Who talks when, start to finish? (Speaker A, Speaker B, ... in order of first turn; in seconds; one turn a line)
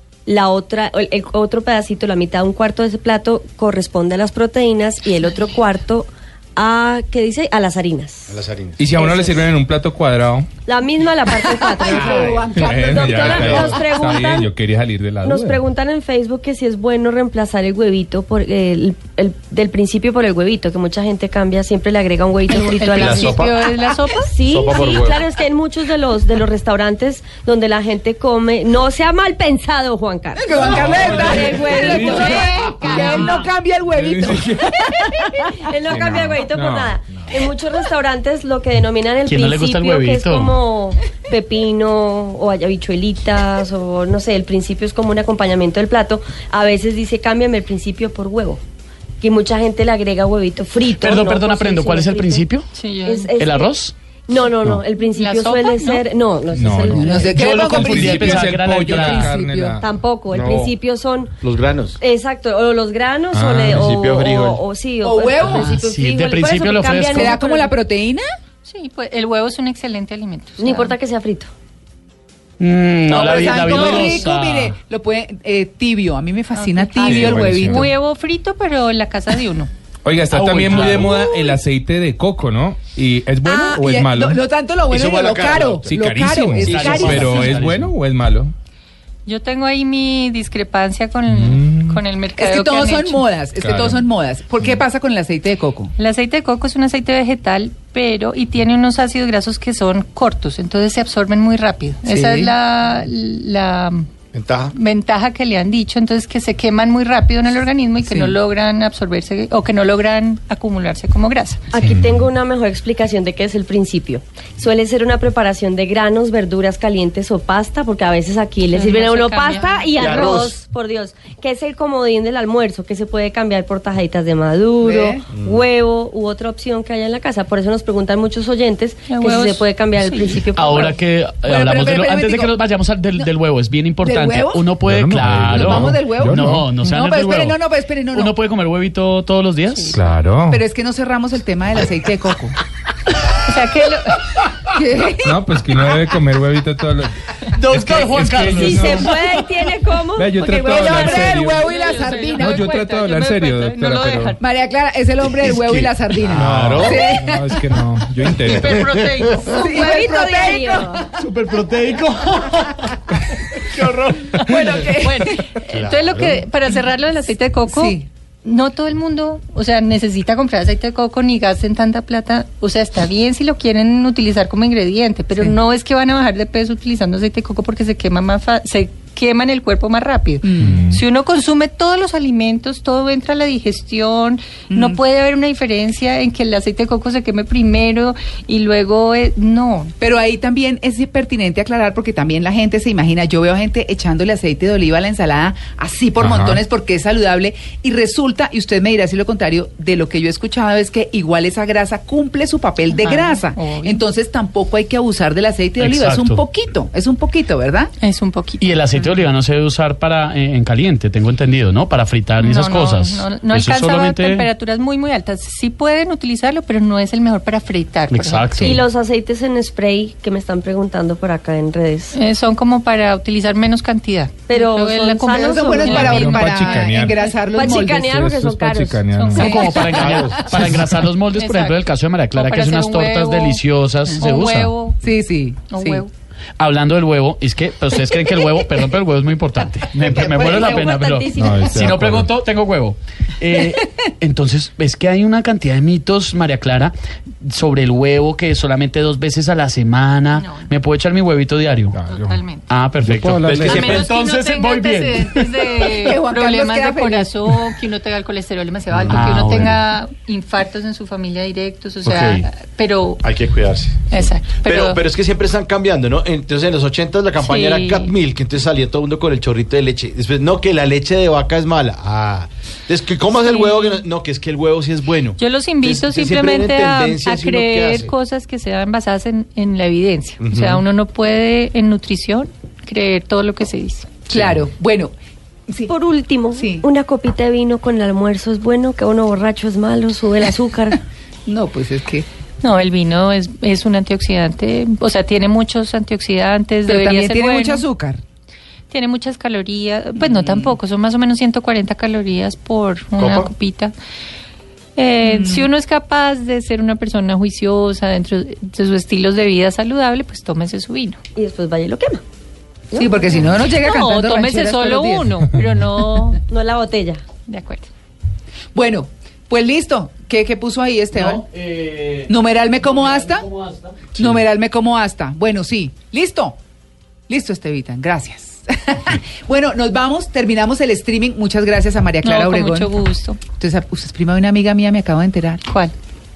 Speaker A: 0.2-8.4
Speaker B: 8.3-8.8
Speaker C: 8.8-10.5
Speaker A: 9.0-9.5
Speaker A: 10.7-14.5
Speaker D: 11.8-13.2
Speaker C: 11.9-15.6
Speaker B: 13.2-13.8
Speaker A: 15.2-23.4
Speaker E: 22.5-24.3
Speaker B: 22.9-23.9
Speaker A: 24.2-33.4
Speaker B: 24.4-25.2
Speaker D: 30.4-35.7
Speaker C: 30.5-33.4
Speaker C: 33.9-34.7
Speaker A: 35.5-48.6
Speaker C: 35.9-37.3
Speaker F: 39.2-40.5
Speaker A: 49.2-52.4
Speaker F: 51.0-52.7
Speaker E: 52.7-53.3
Speaker A: 53.0-53.7
Speaker F: 53.4-53.9
Speaker A: 54.3-57.4
Speaker E: 55.1-56.0
Speaker C: 56.5-59.8
Speaker D: 56.9-59.8
Speaker F: 57.3-59.3
Speaker A: 59.8-61.4
Speaker B: 60.3-60.7
Speaker B: 61.4-62.0
Speaker A: 62.0-67.4
Speaker C: 63.3-64.0
Speaker B: 63.7-64.6
Speaker D: 65.0-65.8
Speaker F: 65.4-67.3
Speaker D: 67.1-68.2
Speaker E: 67.1-67.8
Speaker E: 68.6-70.9
Speaker A: 70.6-71.5
Speaker F: 72.6-74.7
Speaker D: 73.1-77.9
Speaker E: 73.2-74.2
Speaker E: 76.5-79.7
Speaker C: 77.0-77.9
Speaker C: 80.0-84.4
Speaker F: 80.3-81.3
Speaker D: 80.8-81.6
Speaker D: 83.4-87.6
Speaker B: 84.9-85.8
Speaker C: 85.9-88.5
Speaker F: 86.6-87.9
Speaker E: 89.2-93.3
Speaker C: 91.3-92.0
Speaker D: 92.4-95.9
Speaker C: 93.6-94.0
Speaker E: 96.0-104.1
Speaker D: 102.1-102.5
Speaker B: 104.3-104.7
Speaker E: 104.7-111.7
Speaker D: 108.0-108.4
Speaker A: 111.7-130.9
Speaker C: 111.8-112.2
Speaker E: 118.7-119.9
Speaker B: 120.0-120.5
Speaker D: 124.8-125.2
Speaker B: 125.3-125.6
Speaker E: 129.1-130.4
Speaker F: 130.5-137.6
Speaker D: 131.4-132.6
Speaker D: 134.0-134.7
Speaker C: 134.8-136.8
Speaker D: 135.5-138.3
Speaker F: 138.1-140.0
Speaker C: 139.9-140.6
Speaker D: 140.5-142.6
Speaker E: 143.4-144.2
Speaker D: 144.7-145.4
Speaker C: 145.2-149.2
Speaker F: 147.5-149.4
Speaker A: 148.4-150.5
Speaker C: 150.2-151.7
Speaker D: 150.4-152.8
Speaker E: 150.5-154.4
Speaker C: 152.3-154.4
Speaker D: 154.4-157.8
Speaker B: 155.4-157.1
Speaker C: 156.3-158.8
Speaker E: 158.4-160.2
Speaker B: 158.9-159.5
Speaker D: 159.5-161.1
Speaker A: 159.6-161.1
Speaker F: 161.1-163.0
Speaker F: 163.6-164.4
Speaker E: 164.3-189.9
Speaker D: 164.3-165.4
Speaker B: 165.6-166.4
Speaker D: 167.7-168.1
Speaker D: 180.4-180.8
Speaker C: 180.6-181.0
Speaker D: 184.7-185.0
Speaker D: 190.0-207.9
Speaker C: 196.2-196.6
Speaker E: 202.9-204.0
Speaker F: 205.8-206.4
Speaker E: 208.0-208.7
Speaker F: 208.6-214.5
Speaker E: 212.4-218.8
Speaker F: 218.1-218.8
Speaker A: 218.6-222.1
Speaker E: 222.1-227.3
Speaker A: 224.5-226.4
Speaker D: 225.3-228.1
Speaker C: 225.9-227.2
Speaker A: 227.5-229.4
Speaker C: 228.0-229.6
Speaker E: 229.1-230.5
Speaker F: 229.3-234.7
Speaker D: 229.4-230.7
Speaker C: 230.2-230.6
Speaker E: 231.3-231.8
Speaker E: 232.3-235.0
Speaker D: 235.0-236.0
Speaker E: 235.7-236.1
Speaker F: 236.6-252.0
Speaker A: 240.0-242.0
Speaker D: 240.2-240.8
Speaker C: 241.3-242.3
Speaker E: 250.3-250.7
Speaker C: 251.9-252.4
Speaker E: 252.0-252.7
Speaker F: 252.7-255.9
Speaker C: 253.0-254.0
Speaker B: 253.4-254.1
Speaker E: 253.6-263.2
Speaker D: 256.0-257.3
Speaker B: 258.9-259.2
Speaker F: 259.1-259.8
Speaker F: 262.0-262.4
Speaker B: 263.2-278.1
Speaker E: 264.1-265.0
Speaker E: 267.4-268.1
Speaker E: 273.4-274.0
Speaker E: 275.4-284.1
Speaker B: 280.4-280.8
Speaker D: 284.3-285.1
Speaker B: 284.3-284.6
Speaker A: 285.9-291.0
Speaker D: 286.5-286.9
Speaker D: 291.4-292.2
Speaker E: 292.6-297.8
Speaker D: 296.9-298.2
Speaker E: 298.9-303.9
Speaker D: 300.2-300.8
Speaker B: 303.2-303.5
Speaker E: 304.9-311.2
Speaker D: 305.2-305.7
Speaker A: 311.4-312.2
Speaker A: 312.9-313.2
Speaker D: 313.0-315.4
Speaker E: 313.4-316.4
Speaker A: 316.5-317.2
Speaker E: 317.5-317.9
Speaker D: 318.8-321.4
Speaker F: 321.1-324.4
Speaker D: 322.3-323.5
Speaker D: 324.1-326.6
Speaker D: 327.3-332.9
Speaker E: 332.2-333.4
Speaker D: 333.6-335.6
Speaker E: 335.6-335.9